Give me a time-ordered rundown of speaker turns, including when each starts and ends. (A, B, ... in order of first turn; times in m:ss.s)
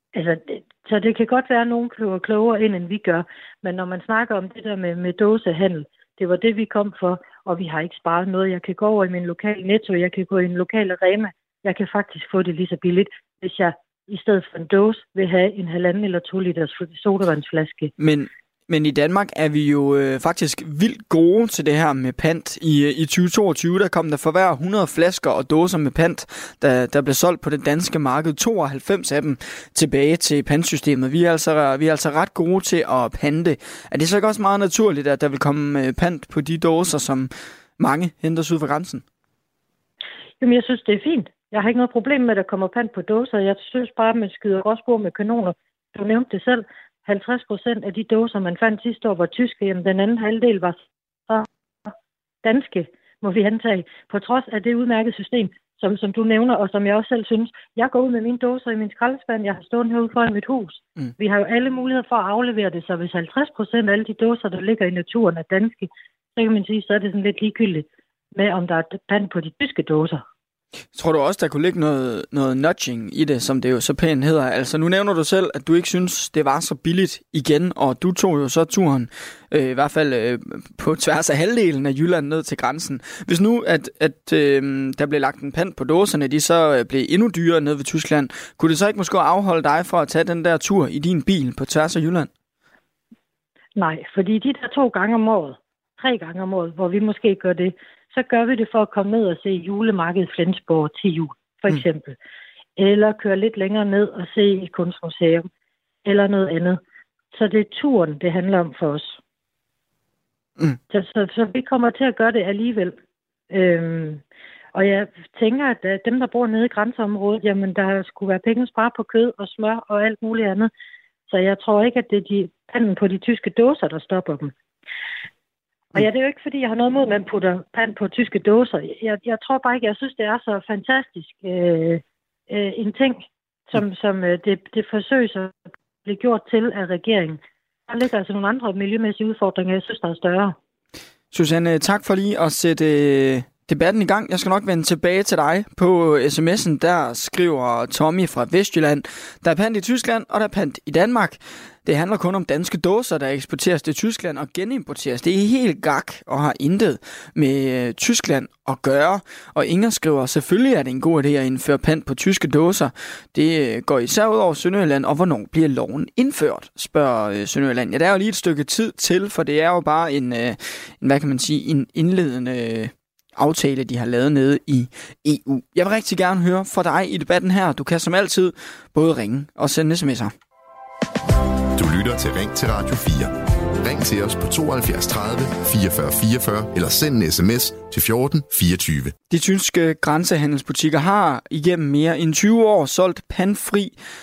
0:00.1-0:17.9 A
0:18.0-0:39.0 B
0:40.4-1:10.2 A
1:10.9-1:32.3 B
1:33.8-1:42.2 A
1:42.8-1:45.5 A
1:46.0-1:46.8 A
1:47.3-1:49.2 A
1:50.9-1:53.0 A
1:53.5-1:54.2 A
1:54.7-2:00.7 A
2:01.3-2:04.5 A
2:05.9-2:20.6 A
2:21.3-3:00.3 B
3:01.8-3:09.1 C
3:09.3-3:13.9 B